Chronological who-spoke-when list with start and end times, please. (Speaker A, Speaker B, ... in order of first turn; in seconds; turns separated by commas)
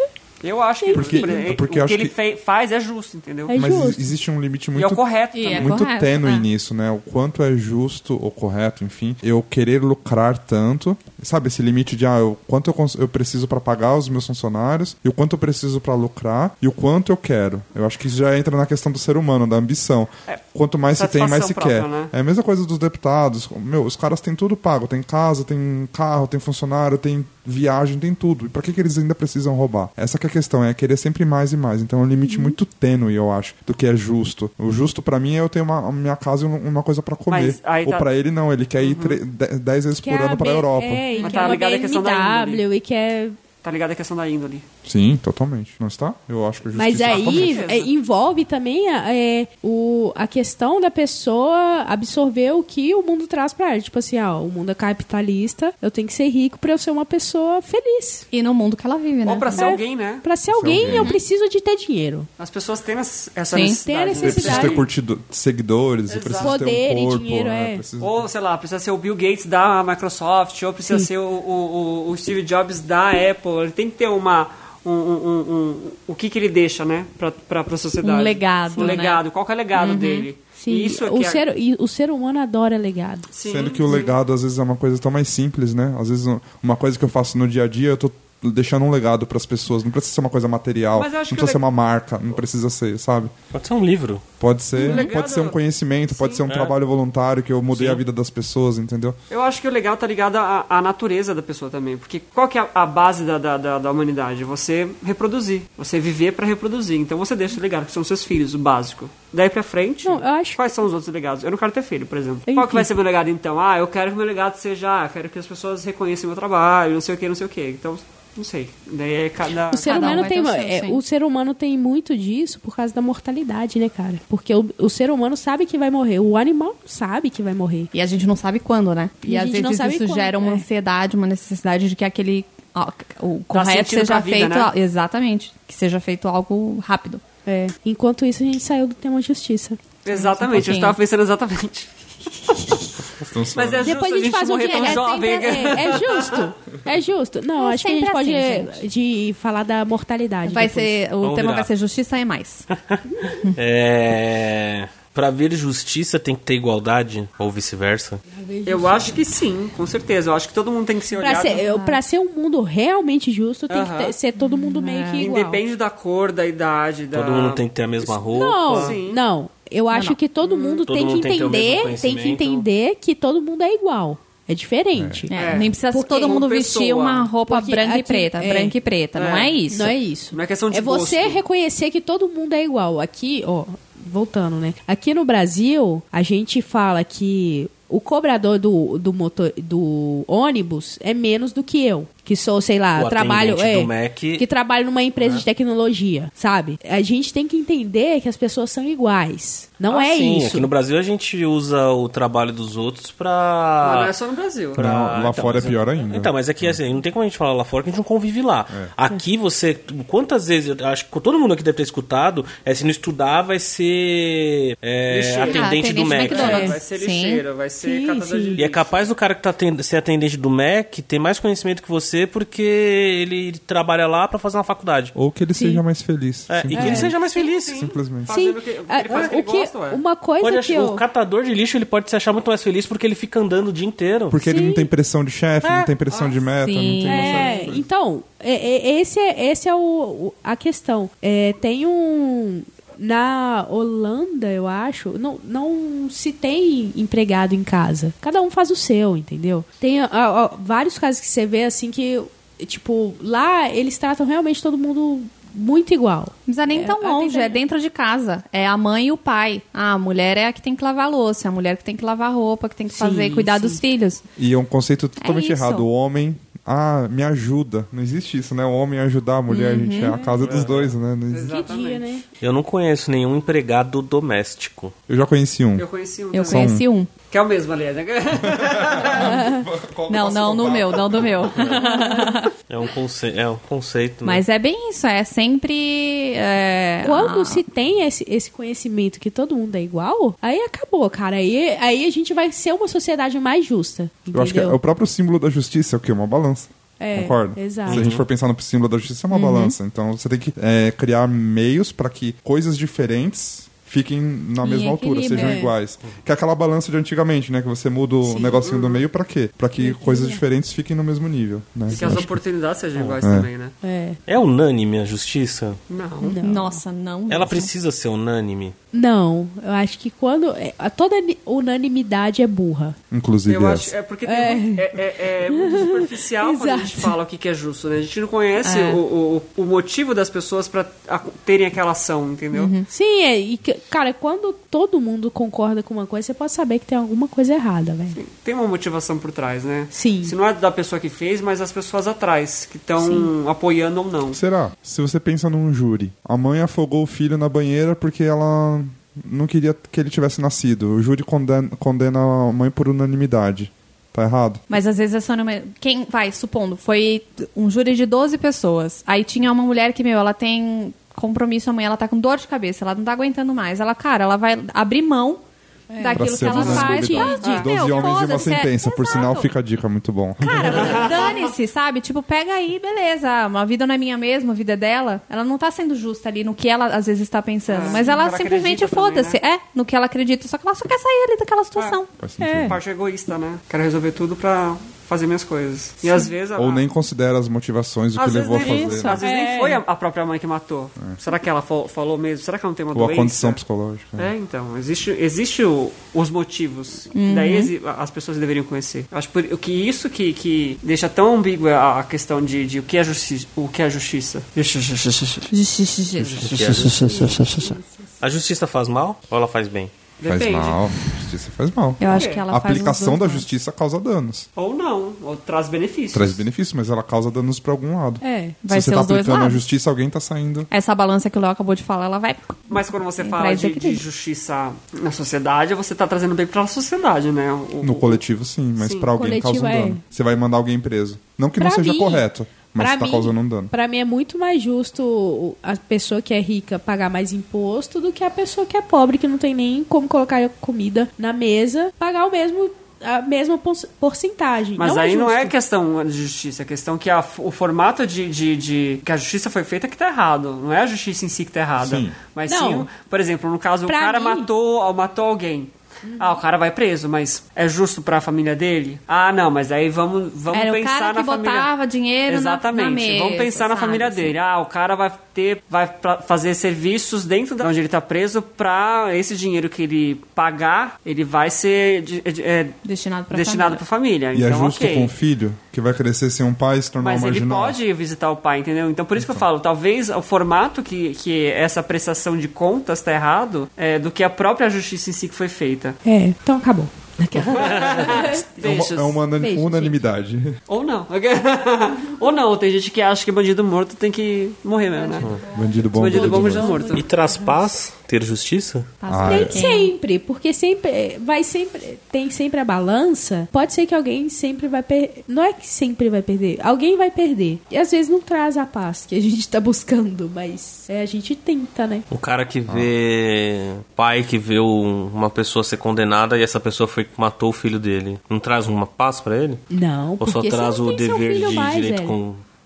Speaker A: 0.4-3.6, Speaker B: 0.8-1.4, Speaker C: 0.9-2.1, Speaker B: 3.5-4.1, Speaker C: 3.5-41.1, Speaker A: 4.8-5.8, Speaker D: 5.3-6.5, Speaker A: 20.9-22.1, Speaker B: 32.3-32.6, Speaker A: 37.3-38.1, Speaker A: 38.8-39.2, Speaker B: 40.0-43.4, Speaker D: 41.2-41.5, Speaker A: 41.2-42.6, Speaker A: 43.6-44.6, Speaker C: 44.9-47.6, Speaker B: 46.8-58.3, Speaker A: 47.0-47.9, Speaker D: 58.3-59.8, Speaker A: 59.2-60.2, Speaker B: 59.5-62.3, Speaker C: 60.5-61.1, Speaker D: 60.8-61.2, Speaker A: 62.4-64.9, Speaker D: 63.5-63.8, Speaker B: 63.8-64.8, Speaker C: 64.2-68.2, Speaker A: 66.1-66.7, Speaker B: 66.4-67.8, Speaker A: 68.0-81.4, Speaker D: 78.0-79.2, Speaker D: 79.8-80.3, Speaker B: 80.5-83.3, Speaker A: 83.3-84.2, Speaker C: 83.5-93.3, Speaker A: 91.0-91.6, Speaker E: 93.5-94.2, Speaker C: 94.4-99.2, Speaker A: 94.8-95.6, Speaker D: 94.8-95.1, Speaker A: 96.1-96.4, Speaker E: 96.5-96.7, Speaker E: 97.7-98.0, Speaker A: 99.3-120.3, Speaker B: 110.0-110.6, Speaker B: 112.5-112.9, Speaker B: 119.7-127.9, Speaker D: 119.8-121.0, Speaker D: 127.9-137.2, Speaker B: 129.2-130.7, Speaker A: 133.5-134.7, Speaker B: 137.4-139.8, Speaker A: 140.0-142.9, Speaker D: 140.1-141.0, Speaker C: 143.2-143.9, Speaker A: 143.5-146.5, Speaker B: 143.8-150.9, Speaker D: 144.7-145.9, Speaker D: 147.6-148.8, Speaker D: 150.4-152.7, Speaker E: 151.2-151.7, Speaker D: 153.3-153.6, Speaker E: 153.6-158.2, Speaker B: 158.3-159.2, Speaker A: 158.7-161.7, Speaker B: 161.2-165.6, Speaker D: 161.4-162.0, Speaker A: 163.7-164.2, Speaker D: 164.4-165.3, Speaker A: 165.2-168.1, Speaker E: 167.1-169.0, Speaker B: 168.3-176.1, Speaker A: 168.7-169.2, Speaker D: 169.9-170.2, Speaker A: 170.4-170.8, Speaker E: 170.8-172.7, Speaker C: 174.9-175.3, Speaker D: 175.3-180.0, Speaker A: 175.3-177.3, Speaker B: 177.5-178.8, Speaker A: 179.2-179.6, Speaker B: 179.7-200.7, Speaker A: 180.3-181.4, Speaker E: 192.9-194.5, Speaker E: 195.2-195.4, Speaker E: 199.9-204.1, Speaker A: 203.8-204.8, Speaker E: 204.7-216.7, Speaker C: 204.8-206.8, Speaker A: 215.1-219.0, Speaker D: 215.5-217.4, Speaker B: 216.4-216.8, Speaker B: 217.8-218.6, Speaker E: 218.6-225.1, Speaker C: 225.2-227.2, Speaker B: 225.6-225.8, Speaker E: 226.5-227.8, Speaker B: 226.7-227.2, Speaker A: 227.3-230.0, Speaker C: 227.7-228.3, Speaker B: 228.3-231.0, Speaker E: 230.4-234.4, Speaker C: 234.3-237.9, Speaker B: 234.4-234.9, Speaker E: 235.6-235.9, Speaker A: 236.1-236.5, Speaker D: 236.6-237.5, Speaker B: 237.1-257.6, Speaker A: 237.3-237.6, Speaker D: 256.5-264.2, Speaker B: 262.9-263.8, Speaker C: 264.4-271.6, Speaker D: 265.2-265.9, Speaker D: 269.5-270.2, Speaker A: 270.3-272.1, Speaker E: 270.4-270.7, Speaker B: 271.5-272.2, Speaker E: 272.4-274.9, Speaker C: 275.1-275.9, Speaker A: 275.8-279.4, Speaker D: 276.3-277.1, Speaker C: 276.5-276.8, Speaker C: 278.5-281.7, Speaker B: 279.2-279.7, Speaker D: 280.1-282.5, Speaker B: 281.8-282.4, Speaker E: 282.7-284.4, Speaker D: 284.2-287.6, Speaker B: 287.0-294.8, Speaker C: 294.3-312.4, Speaker B: 297.0-298.1, Speaker E: 297.9-298.2, Speaker D: 299.3-299.7, Speaker D: 304.6-305.6, Speaker B: 305.3-305.7, Speaker B: 308.2-308.6, Speaker A: 308.6-309.1, Speaker B: 309.8-310.4, Speaker A: 311.9-313.8, Speaker C: 313.2-313.5, Speaker B: 313.8-314.2, Speaker E: 314.3-315.8, Speaker A: 315.9-316.4, Speaker B: 316.2-316.8, Speaker D: 316.4-317.7, Speaker E: 317.3-318.8, Speaker B: 318.9-323.0, Speaker C: 323.1-323.9, Speaker A: 323.5-332.7, Speaker B: 324.2-325.0, Speaker B: 325.5-327.1, Speaker D: 328.6-329.0, Speaker D: 332.5-332.9, Speaker B: 332.9-338.2, Speaker A: 338.1-344.4, Speaker B: 339.9-340.4, Speaker C: 344.3-354.6, Speaker D: 354.7-365.4, Speaker B: 365.9-367.6, Speaker D: 366.0-369.5, Speaker C: 366.1-371.2, Speaker A: 366.6-368.2, Speaker D: 370.4-382.1, Speaker A: 370.8-371.5, Speaker A: 377.7-379.4, Speaker A: 381.8-386.8, Speaker C: 382.2-382.8, Speaker B: 382.4-382.8, Speaker C: 386.6-389.2, Speaker A: 388.2-393.6, Speaker B: 388.5-389.8, Speaker C: 392.9-394.3, Speaker A: 394.2-405.5, Speaker D: 397.1-397.7, Speaker D: 405.5-407.2, Speaker A: 406.2-407.5, Speaker E: 406.4-409.9, Speaker B: 407.1-407.8, Speaker A: 410.2-410.9, Speaker C: 410.2-414.5, Speaker D: 412.0-413.4, Speaker A: 412.1-412.4, Speaker A: 414.6-416.4, Speaker C: 416.1-420.7, Speaker B: 418.2-418.6, Speaker D: 418.6-419.6, Speaker D: 420.7-424.0, Speaker A: 422.7-428.2, Speaker C: 427.8-433.7, Speaker A: 428.8-429.1, Speaker B: 429.2-430.0, Speaker B: 431.6-432.2, Speaker B: 432.8-445.5, Speaker A: 444.8-461.7, Speaker C: 451.8-452.2, Speaker B: 452.5-452.9, Speaker B: 453.9-454.5, Speaker B: 456.1-456.4, Speaker D: 460.5-464.4, Speaker A: 462.3-472.8, Speaker D: 472.9-473.8, Speaker A: 473.3-475.1, Speaker C: 474.3-477.8, Speaker A: 477.0-486.0, Speaker C: 479.2-479.4, Speaker B: 486.1-488.5, Speaker E: 487.4-488.0, Speaker A: 487.5-489.2, Speaker C: 488.6-490.6, Speaker B: 489.4-490.0, Speaker A: 490.7-495.3, Speaker C: 495.5-496.9, Speaker A: 495.9-497.1, Speaker B: 495.9-497.6, Speaker E: 496.9-498.9, Speaker D: 499.0-499.9, Speaker C: 499.1-499.6, Speaker B: 499.2-512.1, Speaker E: 512.1-519.6, Speaker B: 519.7-522.1, Speaker E: 520.2-522.4